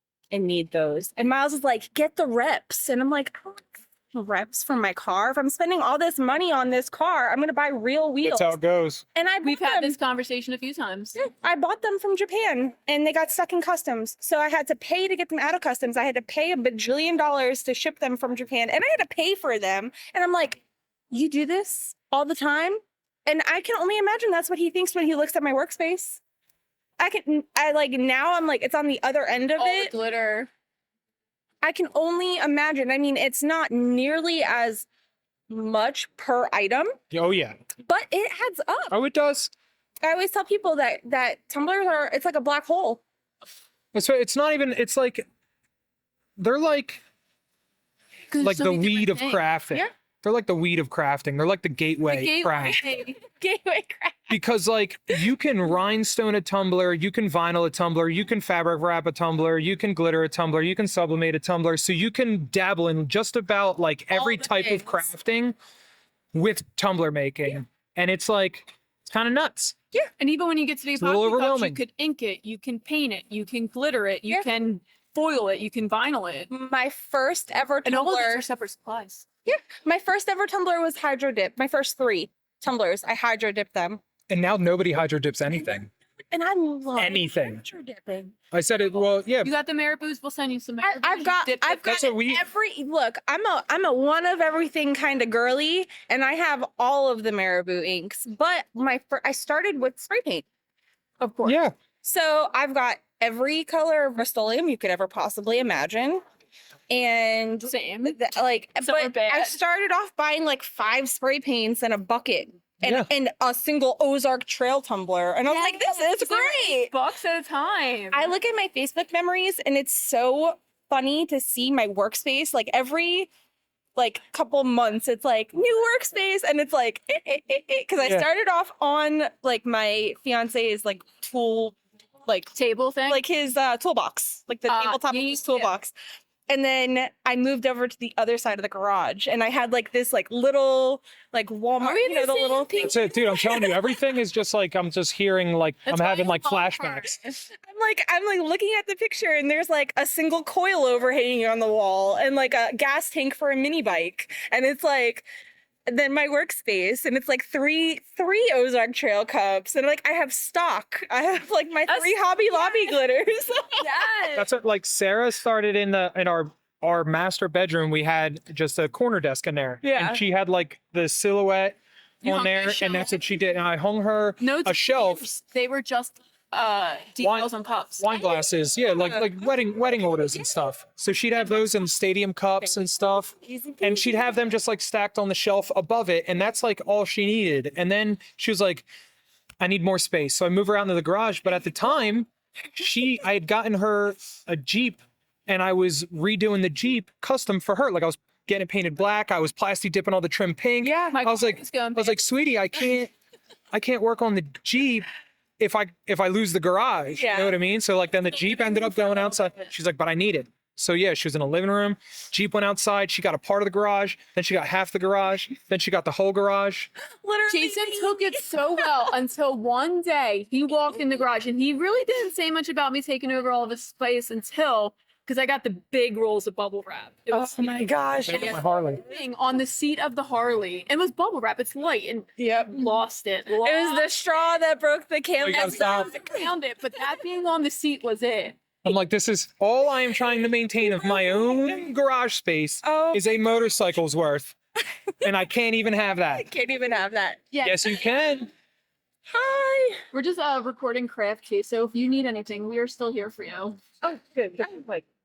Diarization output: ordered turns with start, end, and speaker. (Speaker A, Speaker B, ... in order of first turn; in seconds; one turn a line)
Speaker A: 0.3-8.6
Speaker B: 8.2-9.0
Speaker A: 9.1-10.0
Speaker C: 9.4-11.2
Speaker A: 11.2-26.2
Speaker A: 27.0-29.9
Speaker C: 29.6-30.5
Speaker A: 31.6-34.9
Speaker A: 35.5-36.9
Speaker B: 37.1-37.6
Speaker A: 37.9-39.0
Speaker B: 38.9-39.5
Speaker A: 40.0-43.0
Speaker B: 43.9-45.2
Speaker B: 46.4-47.0
Speaker C: 48.3-49.4
Speaker B: 48.4-52.9
Speaker C: 52.1-53.2
Speaker A: 52.9-54.4
Speaker B: 54.3-65.5
Speaker A: 64.1-65.1
Speaker B: 66.3-69.8
Speaker C: 70.2-76.5
Speaker B: 71.0-71.8
Speaker A: 76.5-78.4
Speaker C: 77.8-79.2
Speaker A: 79.5-84.0
Speaker B: 84.3-85.9
Speaker A: 86.3-88.3
Speaker B: 87.0-87.6
Speaker B: 88.5-89.5
Speaker C: 89.4-92.0
Speaker A: 90.8-100.5
Speaker B: 91.9-92.4
Speaker C: 101.2-101.6
Speaker B: 101.4-101.7
Speaker A: 102.0-106.2
Speaker A: 106.9-116.9
Speaker C: 107.7-108.2
Speaker C: 108.8-109.6
Speaker B: 112.8-113.1
Speaker C: 115.5-118.3
Speaker A: 118.1-123.3
Speaker A: 124.0-132.5
Speaker C: 132.6-133.2
Speaker A: 133.1-135.9
Speaker C: 134.7-135.7
Speaker A: 136.5-143.8
Speaker C: 141.8-143.1
Speaker B: 142.8-147.2
Speaker C: 145.9-147.2
Speaker A: 147.5-155.2
Speaker A: 155.9-164.1
Speaker C: 161.9-163.0
Speaker C: 163.8-164.5
Speaker B: 164.3-175.2
Speaker A: 169.8-170.2
Speaker C: 172.2-173.1
Speaker C: 174.4-178.1
Speaker B: 177.2-188.9
Speaker A: 183.4-184.3
Speaker B: 189.6-203.1
Speaker A: 200.8-201.2
Speaker C: 201.1-202.2
Speaker B: 203.7-205.1
Speaker B: 205.6-216.9
Speaker A: 207.2-207.6
Speaker A: 217.2-219.1
Speaker C: 217.5-234.1
Speaker A: 227.3-228.6
Speaker B: 228.3-229.0
Speaker A: 232.4-232.8
Speaker A: 233.6-236.5
Speaker B: 235.4-236.1
Speaker C: 235.5-238.6
Speaker B: 238.8-244.6
Speaker A: 242.8-243.6
Speaker B: 245.2-246.4
Speaker A: 246.3-247.5
Speaker C: 247.5-247.9
Speaker B: 247.6-248.5
Speaker A: 249.3-250.0
Speaker C: 250.1-253.8
Speaker A: 254.0-255.1